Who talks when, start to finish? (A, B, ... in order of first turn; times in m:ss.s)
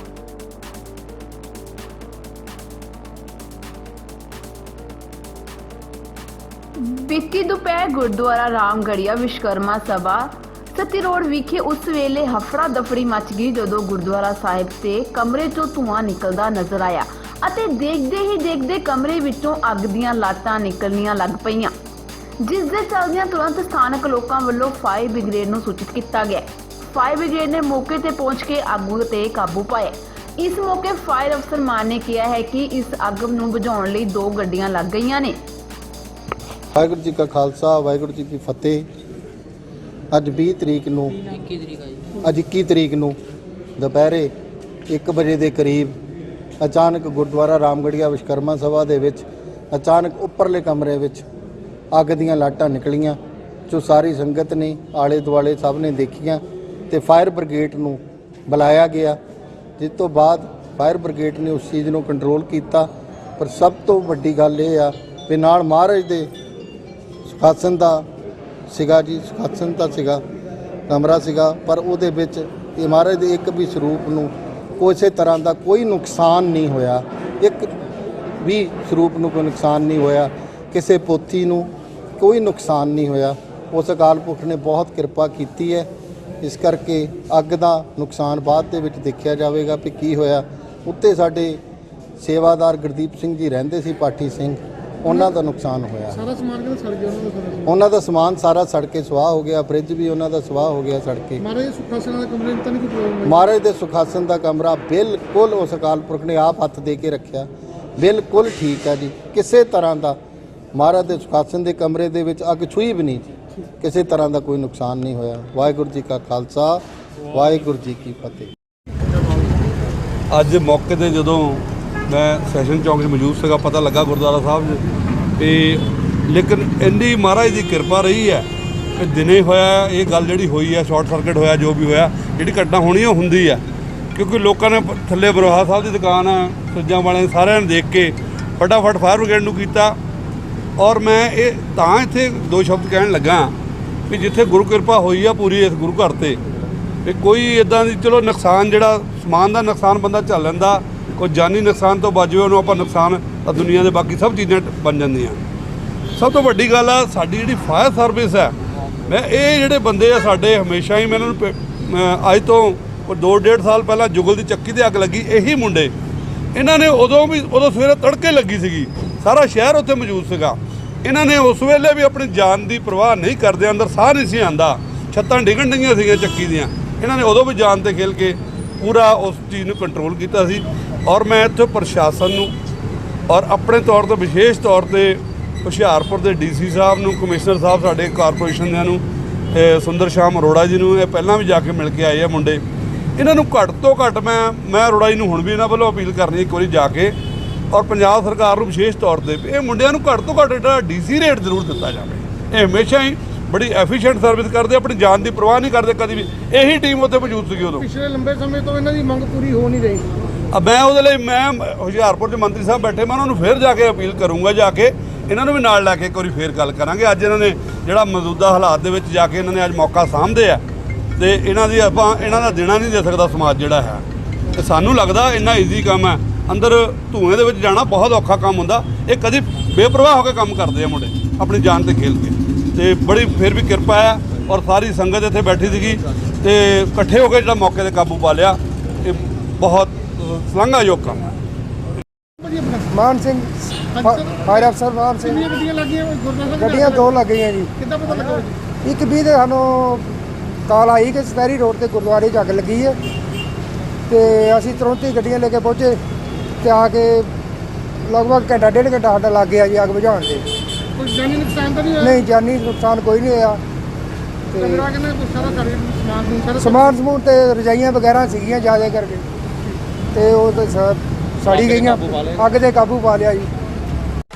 0:06.8-0:21.7 A
0:22.4-0:35.4 A
0:36.7-0:38.8 B
0:40.1-0:41.4 B
0:42.1-0:43.2 B
0:43.8-0:44.3 B
0:44.9-0:46.0 B
0:46.6-0:51.2 B
0:51.9-0:59.2 B
0:59.8-1:06.3 B
1:07.3-1:08.1 B
1:08.7-1:10.2 B
1:10.9-1:17.7 B
1:18.4-1:25.9 B
1:26.4-1:31.6 B
1:32.2-1:36.2 B
1:36.2-1:37.6 C
1:37.7-1:41.4 B
1:41.4-1:43.3 C
1:43.2-1:50.2 B
1:50.7-1:53.2 B
1:53.8-1:58.5 B
2:00.3-2:04.8 D
2:05.4-2:13.6 D
2:14.1-2:20.0 D
2:20.8-2:23.5 D
2:24.1-2:26.4 D
2:27.0-2:35.4 D
2:36.1-2:38.5 D
2:39.1-2:45.9 D
2:46.5-3:02.5 D
3:03.3-3:12.6 D
3:13.2-3:17.2 D
3:17.7-3:27.8 D
3:27.8-3:30.1 C
3:30.5-3:40.6 D
3:41.2-4:01.4 D
4:02.4-4:02.8 C
4:02.9-4:05.4 E
4:04.0-4:04.7 C
4:05.3-4:07.1 C
4:06.6-4:07.7 E
4:07.8-4:08.5 C
4:08.8-4:10.1 E
4:10.7-4:13.0 E
4:14.1-4:16.0 E
4:16.6-4:17.3 E
4:18.0-4:20.4 E
4:21.0-4:22.2 C
4:22.0-4:23.6 E
4:24.5-4:24.9 E
4:24.6-4:26.9 C
4:26.6-4:29.2 E
4:30.1-4:33.5 E